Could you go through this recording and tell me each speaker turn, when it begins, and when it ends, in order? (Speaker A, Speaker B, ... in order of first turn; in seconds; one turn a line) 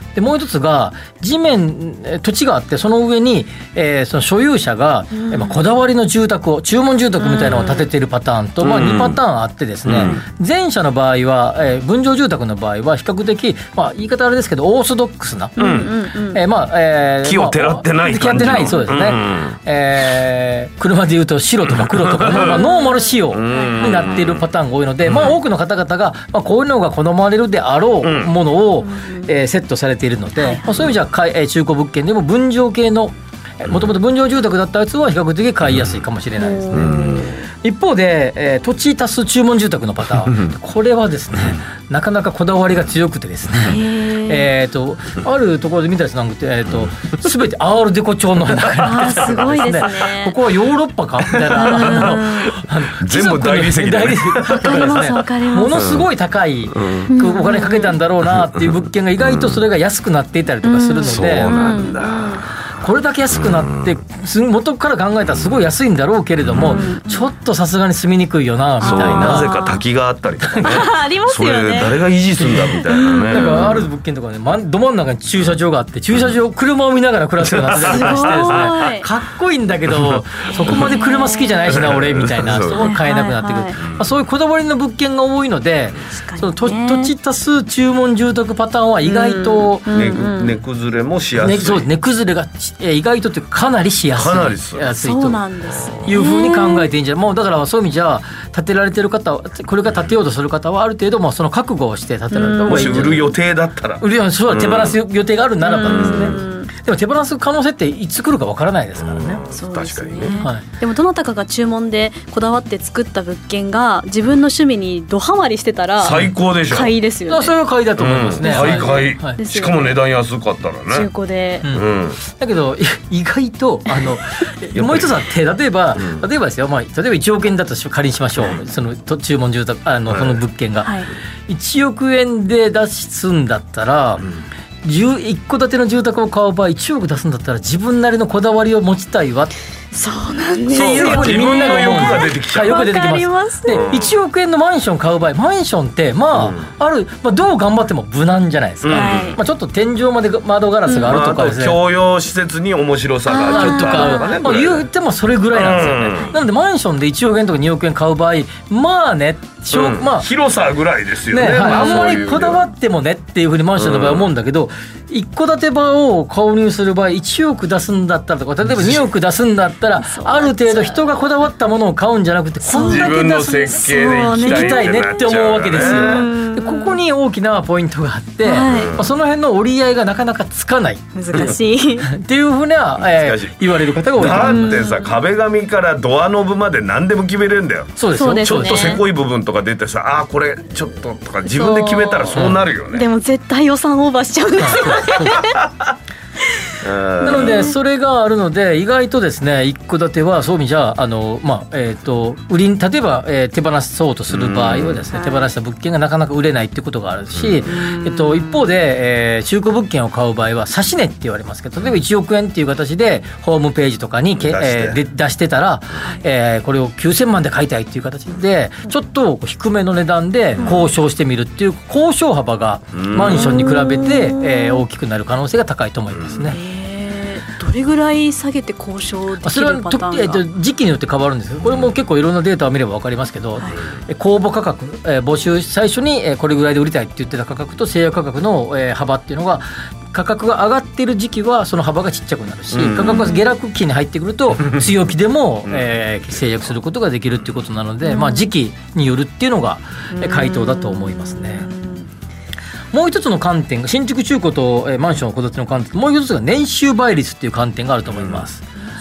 Speaker A: 0.1-15.6
Speaker B: 5.1-5.6
Speaker B: 7.2-7.9
Speaker C: 8.6-9.2
Speaker C: 9.8-10.2
Speaker B: 15.6-16.4
Speaker C: 15.6-15.9
Speaker A: 16.3-37.0
Speaker C: 17.2-19.6
Speaker C: 21.6-22.6
Speaker B: 22.3-24.2
Speaker C: 23.3-24.4
Speaker C: 25.1-25.4
Speaker C: 28.0-28.3
Speaker B: 28.8-29.3
Speaker B: 30.4-30.7
Speaker C: 33.6-33.9
Speaker C: 35.6-36.0
Speaker B: 36.4-37.3
Speaker C: 36.7-37.4
Speaker A: 37.6-61.5
Speaker B: 43.6-44.5
Speaker B: 48.8-50.4
Speaker C: 49.0-49.5
Speaker C: 51.3-55.1
Speaker B: 51.5-52.6
Speaker B: 54.5-55.9
Speaker C: 55.7-56.1
Speaker C: 56.7-57.1
Speaker B: 57.1-58.0
Speaker C: 58.3-59.6
Speaker B: 60.6-62.5
Speaker C: 61.0-62.5
Speaker A: 62.8-69.5
Speaker C: 63.3-64.0
Speaker C: 65.2-65.7
Speaker C: 66.4-66.8
Speaker B: 66.6-67.3
Speaker B: 68.8-69.8
Speaker C: 68.8-73.9
Speaker A: 70.4-70.9
Speaker B: 70.6-73.8
Speaker A: 72.4-90.3
Speaker C: 77.4-78.7
Speaker B: 77.8-79.1
Speaker C: 79.9-81.0
Speaker B: 80.5-81.8
Speaker C: 81.7-82.9
Speaker B: 82.7-83.8
Speaker C: 83.8-84.1
Speaker B: 86.1-87.1
Speaker B: 89.0-90.6
Speaker C: 89.9-91.9
Speaker A: 91.4-95.4
Speaker C: 94.1-94.9
Speaker B: 94.8-96.9
Speaker C: 95.7-96.1
Speaker A: 96.0-103.3
Speaker B: 102.3-103.2
Speaker C: 102.6-105.0
Speaker A: 104.0-109.4
Speaker B: 105.6-106.7
Speaker C: 105.8-106.4
Speaker C: 109.0-110.4
Speaker B: 109.5-117.6
Speaker C: 116.0-116.9
Speaker A: 117.3-119.4
Speaker C: 118.0-121.1
Speaker B: 118.4-120.0
Speaker B: 120.9-121.7
Speaker A: 121.6-130.9
Speaker C: 121.7-122.2
Speaker C: 124.7-125.2
Speaker C: 126.0-126.2
Speaker C: 130.1-130.4
Speaker B: 130.8-131.1
Speaker A: 131.5-134.2
Speaker A: 134.8-139.5
Speaker B: 139.9-144.0
Speaker C: 140.7-142.8
Speaker A: 140.7-151.8
Speaker C: 143.7-144.2
Speaker C: 146.3-146.7
Speaker C: 148.8-149.4
Speaker B: 148.9-149.4
Speaker B: 150.8-151.2
Speaker C: 151.1-154.9
Speaker B: 153.2-154.3
Speaker A: 153.5-160.3
Speaker C: 155.5-156.3
Speaker C: 159.7-162.6
Speaker A: 161.3-184.9
Speaker B: 161.6-162.3
Speaker C: 163.8-164.3
Speaker C: 168.6-169.1
Speaker B: 170.0-171.1
Speaker B: 172.6-177.0
Speaker C: 172.8-176.3
Speaker B: 178.4-179.0
Speaker C: 178.5-179.1
Speaker B: 181.1-182.1
Speaker C: 183.0-193.1
Speaker B: 184.2-185.2
Speaker A: 187.9-189.0
Speaker B: 188.1-189.0
Speaker B: 191.4-195.6
Speaker A: 192.3-192.6
Speaker A: 194.6-195.3
Speaker C: 196.8-197.7
Speaker A: 197.2-226.6
Speaker B: 197.2-197.8
Speaker C: 204.3-205.1
Speaker B: 205.1-205.5
Speaker C: 207.3-207.7
Speaker B: 207.7-208.7
Speaker C: 214.4-215.0
Speaker B: 220.6-220.9
Speaker C: 220.6-220.9
Speaker C: 222.9-223.7
Speaker B: 223.2-224.8
Speaker C: 226.1-226.6
Speaker B: 226.5-230.4
Speaker A: 229.4-251.7
Speaker C: 231.6-231.9
Speaker B: 233.6-233.8
Speaker C: 242.7-243.2
Speaker B: 243.0-243.5
Speaker C: 245.6-246.7
Speaker B: 248.0-248.5
Speaker B: 250.1-252.1
Speaker A: 252.9-258.6
Speaker C: 258.1-258.4